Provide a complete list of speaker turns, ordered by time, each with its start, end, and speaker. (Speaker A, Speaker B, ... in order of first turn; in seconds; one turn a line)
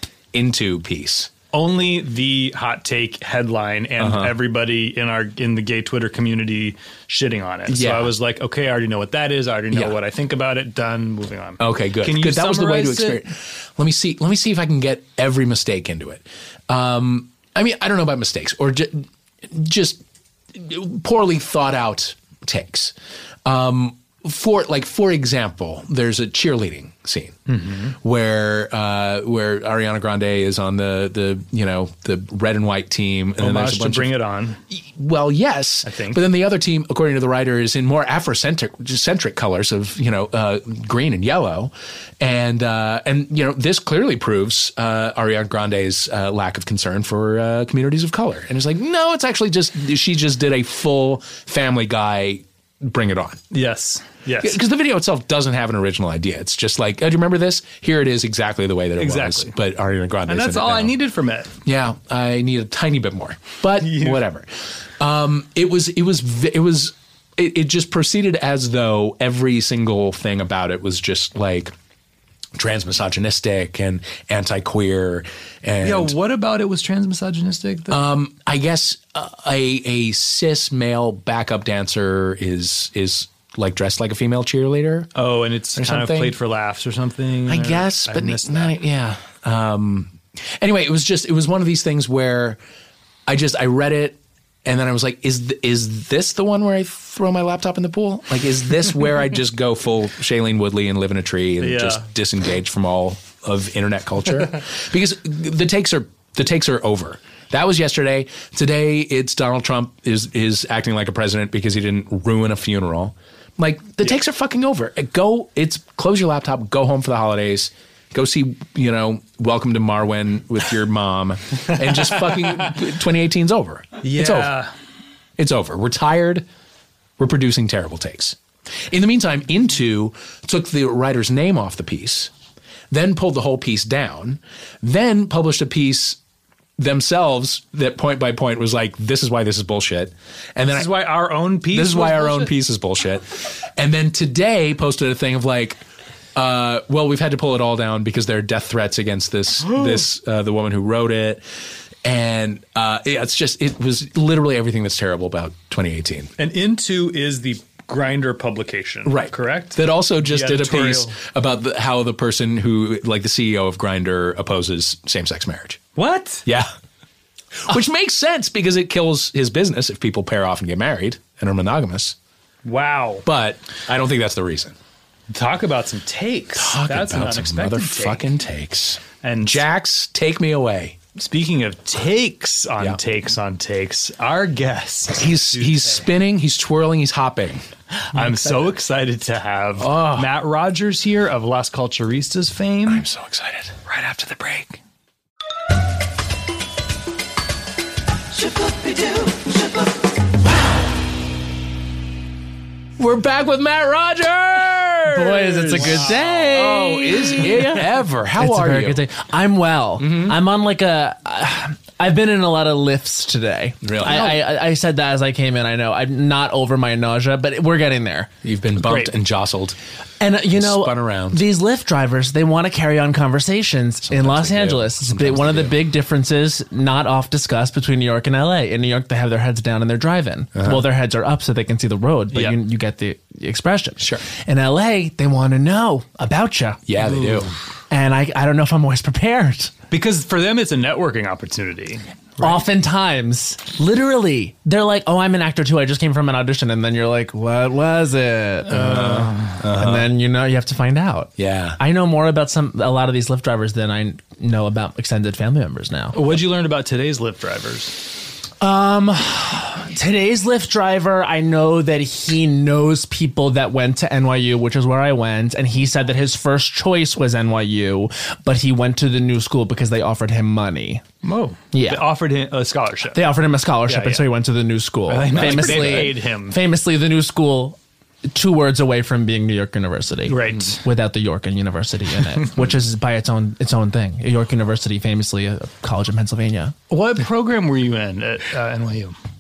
Speaker A: 0.3-1.3
Speaker B: 1.5-13.2
Speaker A: 4.0-4.4
Speaker A: 7.7-8.1
Speaker A: 9.7-10.0
Speaker A: 11.6-22.9
Speaker A: 23.4-27.4
Speaker B: 27.5-28.0
Speaker A: 27.9-34.1
Speaker B: 33.4-34.6
Speaker A: 34.7-53.4
Speaker B: 35.9-36.2
Speaker B: 53.5-54.6
Speaker A: 54.4-61.0
Speaker B: 59.0-59.5
Speaker B: 60.3-61.5
Speaker A: 61.6-71.7
Speaker B: 63.8-64.2
Speaker A: 72.5-76.2
Speaker B: 75.8-78.0
Speaker A: 77.9-85.1
Speaker B: 85.2-88.8
Speaker A: 85.8-86.4
Speaker A: 87.5-92.6
Speaker A: 93.3-124.6
Speaker B: 101.6-102.0
Speaker B: 124.0-124.7
Speaker A: 125.4-126.5
Speaker A: 127.2-132.3
Speaker A: 132.9-136.2
Speaker A: 136.8-140.9
Speaker B: 140.7-142.5
Speaker A: 141.7-145.8
Speaker A: 146.3-151.4
Speaker B: 149.7-150.1
Speaker A: 152.0-156.3
Speaker B: 156.4-161.2
Speaker A: 159.1-165.8
Speaker B: 166.0-166.5
Speaker A: 166.4-166.7
Speaker A: 167.7-172.2
Speaker B: 172.7-173.2
Speaker A: 173.2-174.8
Speaker B: 175.3-178.3
Speaker A: 176.6-181.0
Speaker B: 179.2-179.7
Speaker B: 181.2-186.1
Speaker A: 185.2-187.7
Speaker B: 188.1-193.1
Speaker A: 189.8-190.3
Speaker A: 192.9-193.8
Speaker B: 193.9-194.8
Speaker B: 198.6-199.4
Speaker A: 203.0-209.1
Speaker C: 205.1-218.3
Speaker B: 205.7-206.5
Speaker A: 210.0-210.4
Speaker A: 213.8-214.4
Speaker B: 214.1-214.4
Speaker A: 218.4-219.8
Speaker B: 218.8-219.1
Speaker C: 220.2-236.8
Speaker A: 220.5-221.4
Speaker A: 224.1-225.8
Speaker A: 230.6-230.8
Speaker B: 232.3-232.6
Speaker A: 234.0-234.2
Speaker A: 236.9-237.5
Speaker B: 237.0-237.5
Speaker C: 237.9-239.7
Speaker B: 239.9-242.6
Speaker C: 242.4-256.2
Speaker A: 248.7-250.1
Speaker B: 248.7-249.6
Speaker A: 251.4-251.8
Speaker B: 256.1-258.0
Speaker C: 258.6-271.1
Speaker B: 271.2-273.2
Speaker C: 271.7-272.0
Speaker C: 273.1-277.8
Speaker B: 273.9-274.4
Speaker B: 275.1-276.6
Speaker A: 275.4-276.1
Speaker C: 278.3-286.7
Speaker B: 280.3-280.8
Speaker B: 286.9-289.1